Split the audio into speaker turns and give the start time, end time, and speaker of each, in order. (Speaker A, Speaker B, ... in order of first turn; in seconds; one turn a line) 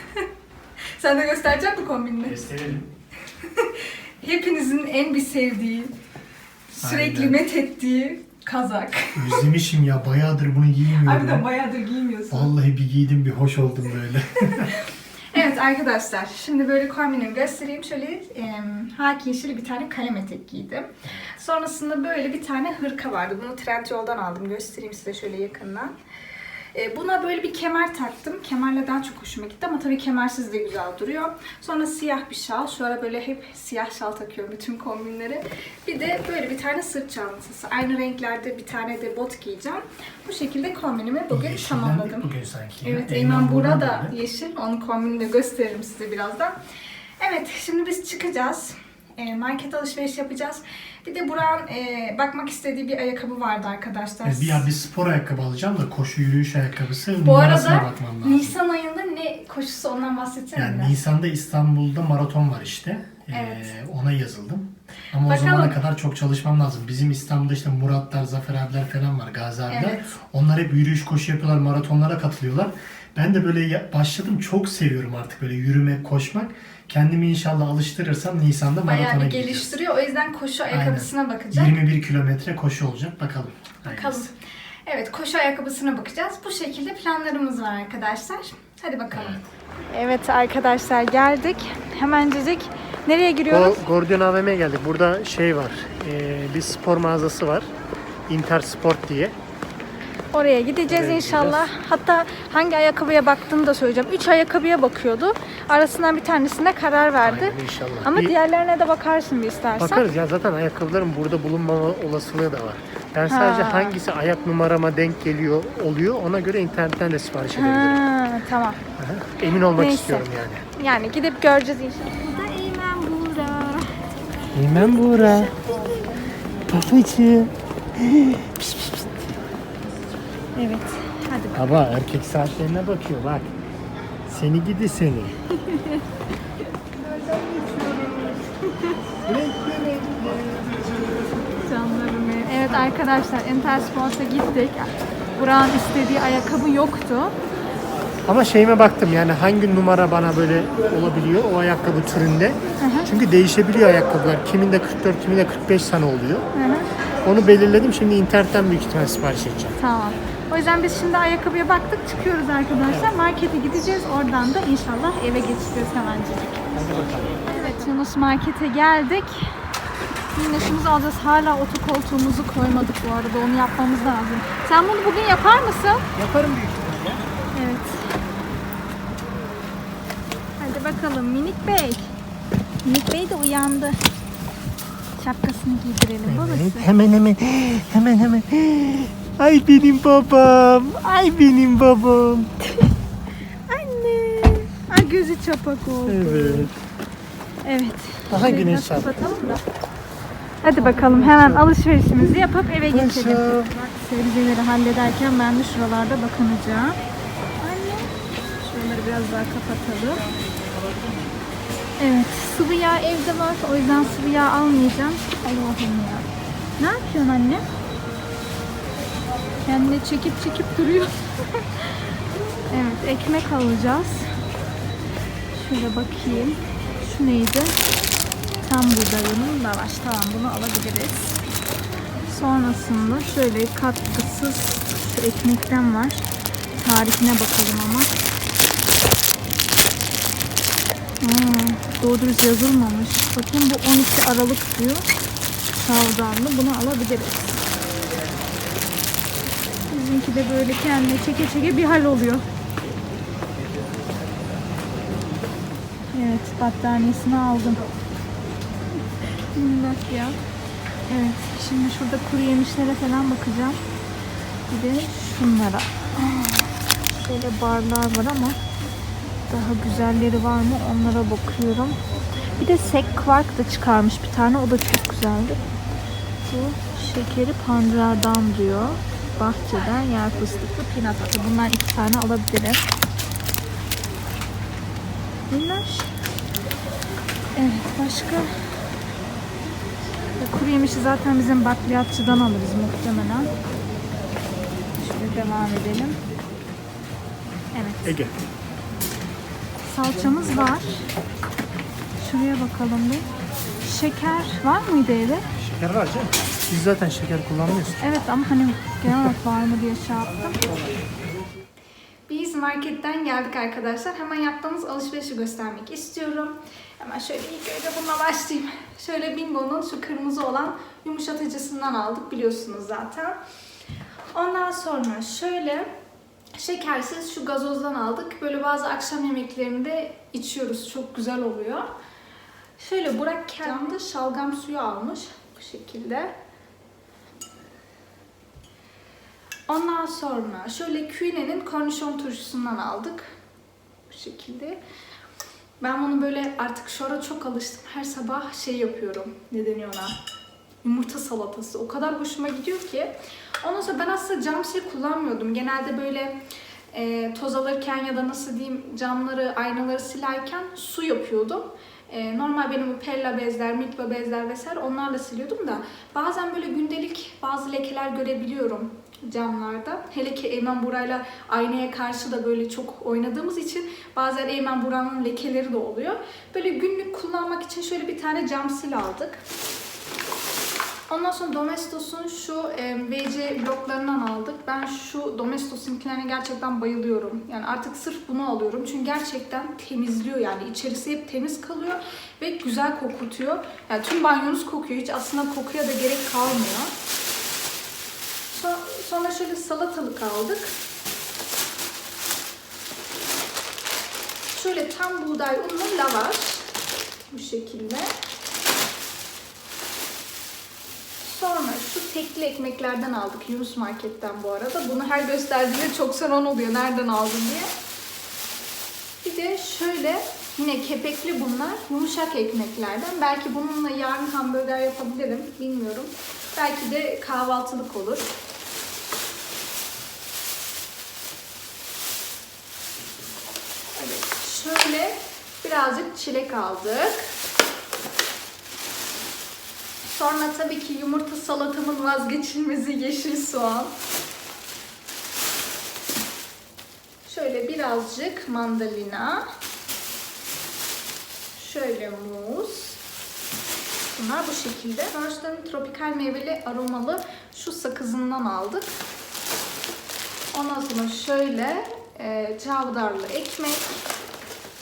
Speaker A: 0.9-2.4
Speaker B: 2.3-2.9
Speaker A: 3.4-5.9
Speaker A: 6.7-9.5
Speaker B: 6.8-7.5
Speaker B: 9.2-11.5
Speaker A: 11.0-12.5
Speaker B: 12.3-14.8
Speaker A: 14.4-25.9
Speaker A: 26.7-42.3
Speaker B: 41.3-44.1
Speaker A: 42.8-46.6
Speaker A: 47.2-54.7
Speaker B: 54.2-58.6
Speaker A: 57.2-61.0
Speaker B: 60.5-79.8
Speaker A: 63.3-63.7
Speaker A: 65.2-65.8
Speaker A: 69.7-70.1
Speaker A: 78.8-81.8
Speaker B: 80.7-84.3
Speaker A: 83.9-84.3
Speaker A: 84.9-93.8
Speaker B: 89.1-89.5
Speaker B: 93.5-97.7
Speaker B: 98.3-99.3
Speaker A: 100.3-110.1
Speaker B: 100.9-101.7
Speaker B: 107.2-108.3
Speaker B: 109.8-118.0
Speaker A: 113.3-114.0
Speaker A: 117.5-118.8
Speaker B: 119.0-120.7
Speaker A: 119.6-124.1
Speaker B: 124.5-125.6
Speaker A: 124.7-126.2
Speaker B: 126.7-128.7
Speaker A: 130.6-131.9
Speaker B: 131.6-133.5
Speaker B: 134.3-135.4
Speaker A: 135.5-136.0
Speaker A: 137.1-139.0
Speaker B: 139.3-141.0
Speaker A: 141.6-147.3
Speaker B: 148.3-156.5
Speaker A: 152.8-153.1
Speaker A: 156.5-156.9
Speaker B: 157.2-159.8
Speaker A: 159.8-166.7
Speaker B: 166.7-167.4
Speaker A: 167.5-169.6
Speaker A: 170.3-176.1
Speaker B: 176.2-177.2
Speaker A: 177.6-178.2
Speaker A: 180.6-182.1
Speaker A: 182.8-184.0
Speaker A: 185.2-186.9
Speaker B: 186.3-192.5
Speaker A: 193.7-196.7
Speaker B: 196.1-196.7
Speaker A: 197.7-199.6
Speaker B: 198.3-199.6
Speaker A: 200.6-207.0
Speaker B: 200.7-201.7
Speaker B: 202.9-203.7
Speaker A: 207.6-210.2
Speaker A: 212.0-216.3
Speaker A: 216.8-217.7
Speaker A: 219.7-221.7
Speaker A: 222.7-224.3
Speaker A: 225.5-227.8
Speaker A: 228.6-231.4
Speaker A: 232.3-236.3
Speaker A: 236.8-238.1
Speaker A: 241.2-245.1
Speaker A: 245.8-247.6
Speaker A: 249.9-252.4
Speaker A: 256.1-257.9
Speaker A: 259.5-260.4
Speaker A: 261.1-263.8
Speaker A: 264.7-268.6
Speaker A: 269.5-272.0
Speaker A: 272.6-275.6
Speaker A: 276.4-282.8
Speaker A: 285.5-286.1
Speaker A: 287.6-288.6
Speaker A: 290.4-293.5
Speaker A: 295.0-296.2
Speaker A: 297.7-298.2
Speaker B: 298.0-298.4
Speaker A: 299.9-301.1
Speaker A: 302.2-303.3
Speaker A: 303.8-305.5
Speaker B: 305.6-308.1
Speaker A: 308.0-310.7
Speaker A: 312.3-323.4
Speaker A: 324.3-325.9
Speaker A: 326.6-331.9
Speaker A: 332.8-336.3
Speaker A: 339.7-343.2
Speaker A: 344.1-344.8
Speaker A: 345.8-350.2
Speaker A: 350.8-356.4
Speaker A: 356.9-379.4
Speaker A: 381.1-396.9
Speaker A: 398.5-400.7
Speaker A: 404.5-406.6
Speaker A: 407.3-408.1
Speaker A: 411.2-417.7
Speaker A: 419.2-428.3
Speaker A: 434.0-437.3
Speaker A: 440.1-444.0
Speaker A: 447.2-449.5
Speaker A: 451.6-453.0
Speaker A: 454.1-459.0
Speaker A: 460.5-463.9